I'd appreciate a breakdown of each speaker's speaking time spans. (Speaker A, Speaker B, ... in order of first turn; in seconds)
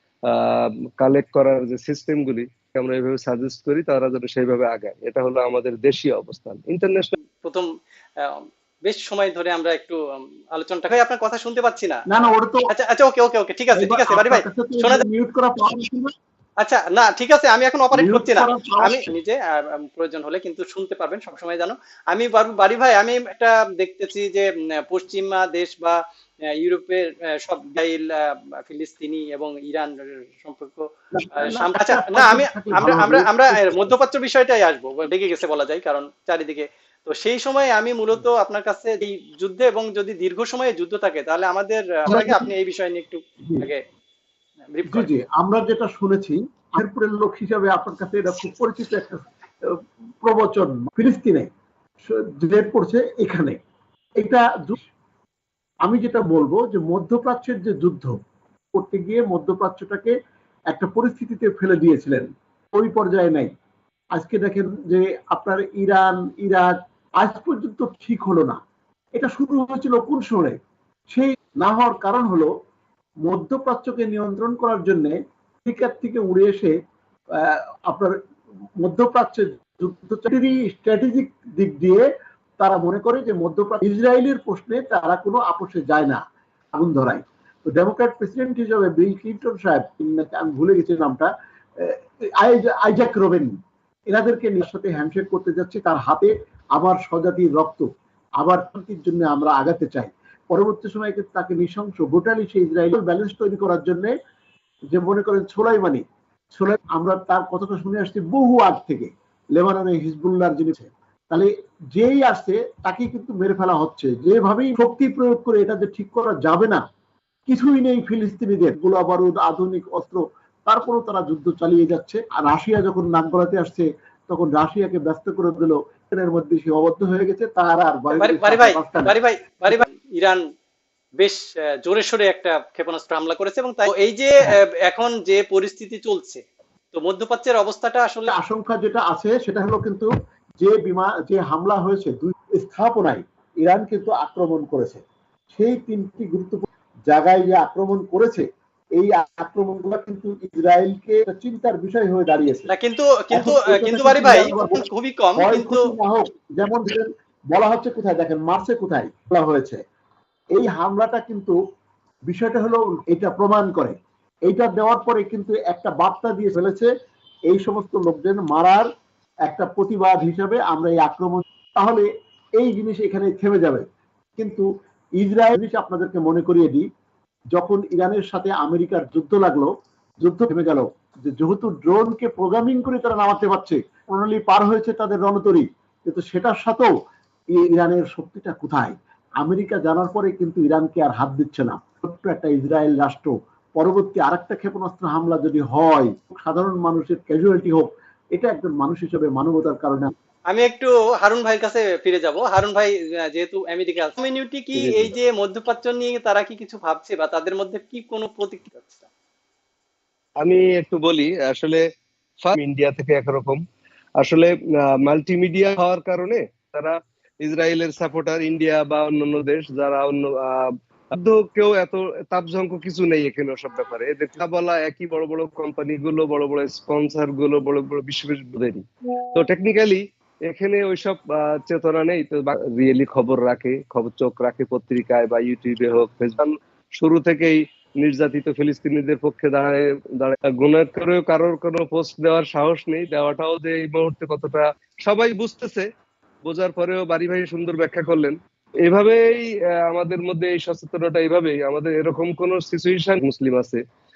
Speaker A: 0.3-7.1, 204.8-205.1, 210.4-211.8, 212.4-213.6, 214.2-228.8, 229.3-245.9, 246.5-253.8
Speaker B: 7.4-10.0, 10.5-12.1, 12.7-15.1, 16.6-26.0, 26.5-30.9, 31.4-43.8, 44.7-45.1, 128.2-130.4, 131.2-136.4, 136.9-138.3, 152.7-155.9, 200.5-209.1
Speaker C: 12.1-12.7, 13.8-16.1, 17.9-19.1, 31.1-34.0, 42.1-42.5, 44.9-51.5, 52.1-53.6, 54.2-54.9, 55.9-58.1, 58.7-60.1, 60.7-63.5, 64.2-68.6, 69.2-70.6, 71.1-72.5, 73.2-76.7, 77.3-78.2, 78.8-82.1, 82.6-86.2, 86.8-93.5, 94.1-97.9, 98.4-104.1, 104.9-106.0, 106.5-116.8, 117.5-129.2, 138.3-140.1, 140.6-148.5, 149.0-152.7, 153.3-154.8, 155.4-159.8, 160.5-161.6, 162.3-164.0, 164.5-166.9, 167.5-168.9, 169.5-172.1, 172.6-173.8, 174.4-176.8, 177.5-179.7, 180.2-186.9, 187.5-200.1